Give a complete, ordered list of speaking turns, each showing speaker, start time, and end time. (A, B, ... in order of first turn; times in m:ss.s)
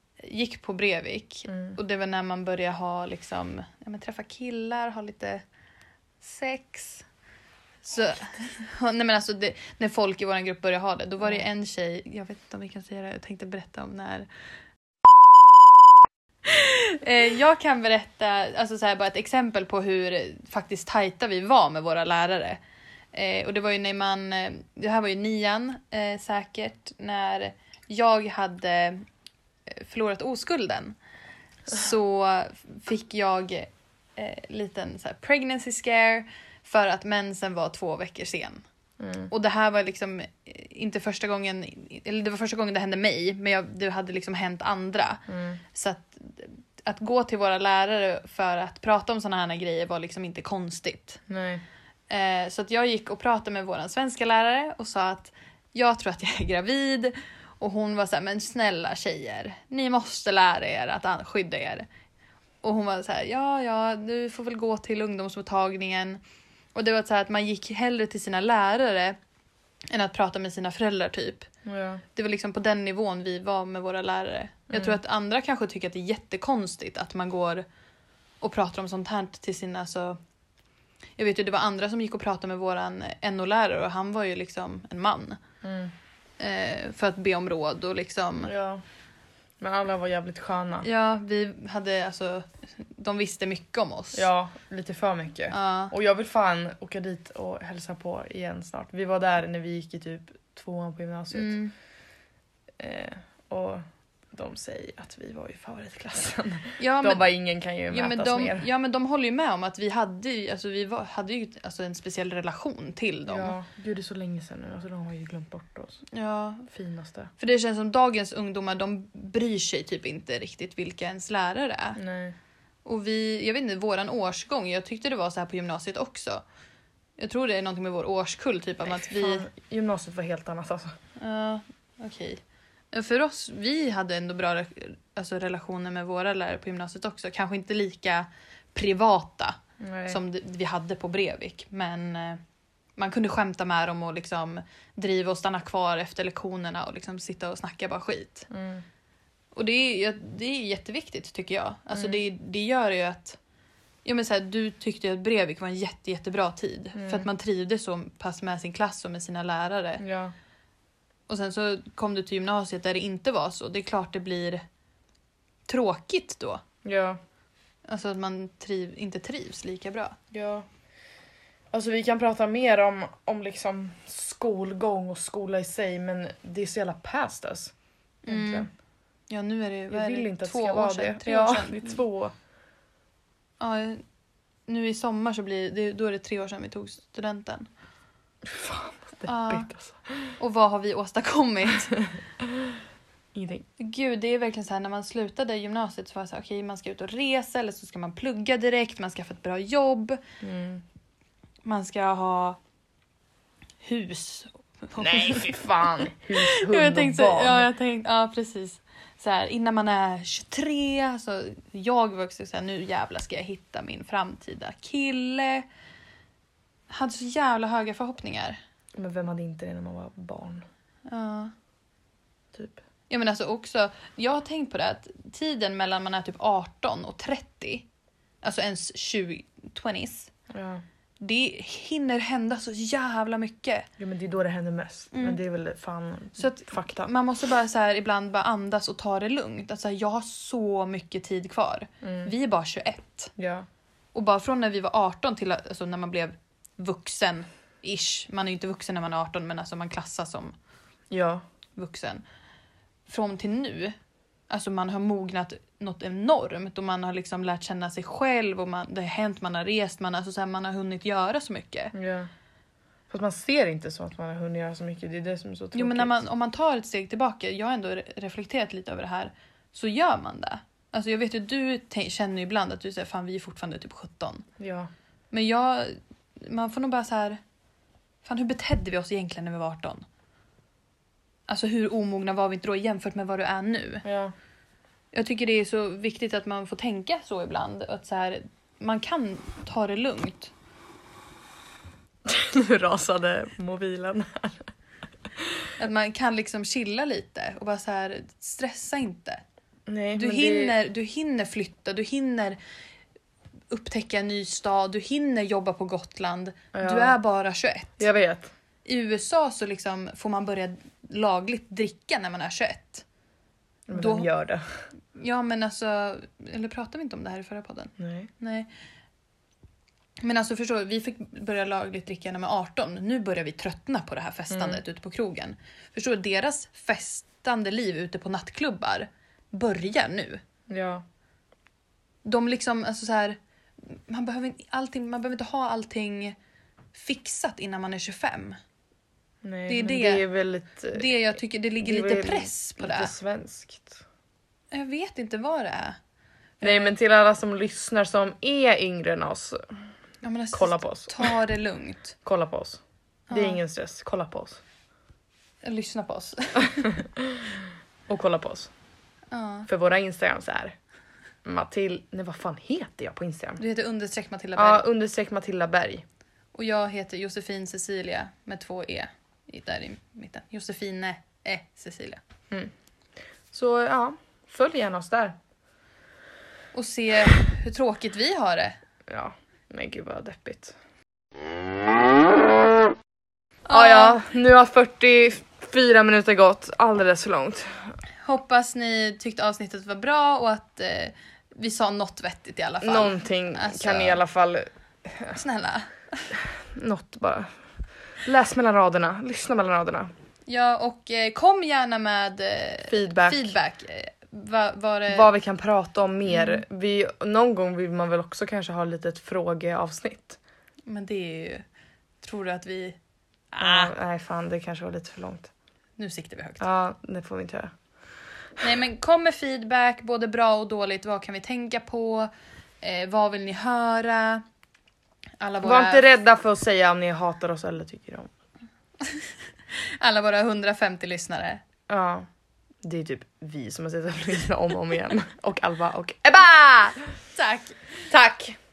0:00.2-0:05.4 A
0:01.5-0:01.8 B
0:06.2-0:07.0 A
0:07.8-0:14.3 A
0:16.4-0:22.6 A
0:23.1-0:29.1 A
0:29.7-0:31.0 A
0:31.7-0:38.6 A
0:39.0-0:39.3 B
0:39.3-0:51.2 A
0:45.3-0:45.6 B
0:51.3-0:51.6 B
0:52.1-1:01.9 A
1:02.6-1:06.2 A
1:06.8-1:09.2 A
1:09.9-1:11.5 A
1:11.7-1:12.0 B
1:12.2-1:17.7 A
1:18.4-1:20.2 A
1:21.2-1:25.4 A
1:25.6-1:25.9 B
1:26.4-1:28.5 A
1:28.4-1:28.8 B
1:29.6-1:30.9 B
1:30.8-1:34.3 A
1:34.1-1:41.6 B
1:35.5-1:35.9 A
1:41.3-1:41.7 A
1:42.8-1:48.7 B
1:46.8-1:47.3 A
1:47.9-1:53.6 A
1:53.3-1:56.0 B
1:56.1-1:56.7 A
1:56.7-1:57.3 B
1:57.4-2:02.0 A
2:02.0-2:02.4 B
2:02.8-2:06.4 A
2:07.2-2:09.5 A
2:08.9-2:10.9 B
2:11.2-2:12.4 A
2:12.9-2:22.4 A
2:19.8-2:20.2 B
2:23.0-2:28.5 A
2:28.5-2:28.8 B
2:29.5-2:33.4 A
2:31.9-2:32.2 B
2:34.0-2:40.0 A
2:37.0-2:37.3 B
2:40.0-2:40.3 B
2:41.3-2:44.6 A
2:45.7-2:46.6 A
2:46.8-2:47.2 B
2:47.9-2:50.2 A
2:50.3-2:50.7 B
2:51.7-2:57.7 B
2:58.3-2:58.7 A
2:58.3-2:58.7 B
2:59.3-3:02.0 A
2:59.9-3:02.3 B
3:03.6-3:04.0 A
3:04.7-3:07.7 A
3:08.4-3:10.4 B
3:09.2-3:09.7 A
3:10.4-3:12.0 A
3:12.4-3:12.8 B
3:13.4-3:13.7 B
3:13.8-3:20.2 A
3:20.4-3:20.8 B
3:21.6-3:22.6 A
3:23.8-3:35.7 A
3:25.0-3:27.7 B
3:36.9-3:38.6 A
3:39.0-3:40.7 B
3:41.1-3:41.5 A
3:43.1-3:47.9 A
3:48.4-3:50.3 A
3:50.5-3:50.8 B
3:51.2-3:53.9 A
3:54.0-3:57.1 B
3:55.1-3:55.4 A
3:56.4-4:03.3 A
4:02.0-4:02.3 B
4:03.4-4:03.7 B
4:04.1-4:10.5 A
4:11.1-4:11.4 B
4:11.8-4:12.2 A
4:13.1-4:14.0 A
4:14.5-4:21.9 A
4:21.9-4:22.3 B
4:23.1-4:26.2 B
4:25.8-4:34.5 A
4:34.6-4:34.9 B
4:35.3-4:37.4 A
4:38.2-4:40.1 A
4:41.5-4:44.0 A
4:44.0-4:44.3 B
4:45.1-4:50.5 A
4:52.2-4:54.7 B
4:55.8-4:59.4 A
4:59.9-5:00.8 B
5:00.2-5:02.6 A
5:03.7-5:08.0 A
5:06.7-5:07.2 B
5:08.0-5:08.5 B
5:08.8-5:13.0 A
5:13.9-5:14.6 B
5:13.9-5:14.3 A
5:15.2-5:18.7 A
5:18.0-5:18.3 B
5:20.2-5:30.4 A
5:24.5-5:24.8 B
5:30.7-5:31.0 B
5:32.2-5:36.4 A
5:36.9-5:38.6 A
5:39.4-5:41.1 B
5:39.7-5:40.2 A
5:40.9-5:43.1 A
5:41.8-5:44.0 B
5:44.7-5:46.0 A
5:46.6-5:46.9 A
5:46.6-5:49.7 B
5:50.2-5:52.2 A
5:50.5-5:51.4 B
5:52.2-5:54.6 B
5:53.3-5:53.6 A
5:55.6-5:56.9 A
5:56.6-5:58.7 B
5:59.3-5:59.7 A
5:59.7-6:00.8 B
6:01.4-6:03.6 B
6:03.6-6:04.9 A
6:04.6-6:06.0 B
6:06.5-6:12.2 A
6:13.5-6:15.4 B
6:16.7-6:18.8 A
6:19.1-6:20.8 B
6:23.7-6:24.2 A
6:23.7-6:27.9 B
6:28.2-6:34.2 A
6:32.8-6:35.4 B
6:35.4-6:36.3 A
6:36.4-6:37.6 B
6:38.2-6:40.1 B
6:40.5-6:45.3 A
6:42.9-6:43.6 B
6:45.1-6:50.4 B
6:46.3-6:46.6 A
6:50.9-6:51.6 A
6:52.2-6:53.0 A
6:53.5-6:53.9 A
6:53.6-6:55.5 B
6:56.0-6:56.7 A
6:56.6-6:57.7 B
6:58.6-7:02.3 A
7:02.8-7:04.4 A
7:05.4-7:06.0 A
7:05.6-7:08.3 B
7:09.0-7:11.6 A
7:11.9-7:12.3 B
7:12.8-7:17.1 B
7:17.4-7:17.8 A
7:18.1-7:18.6 B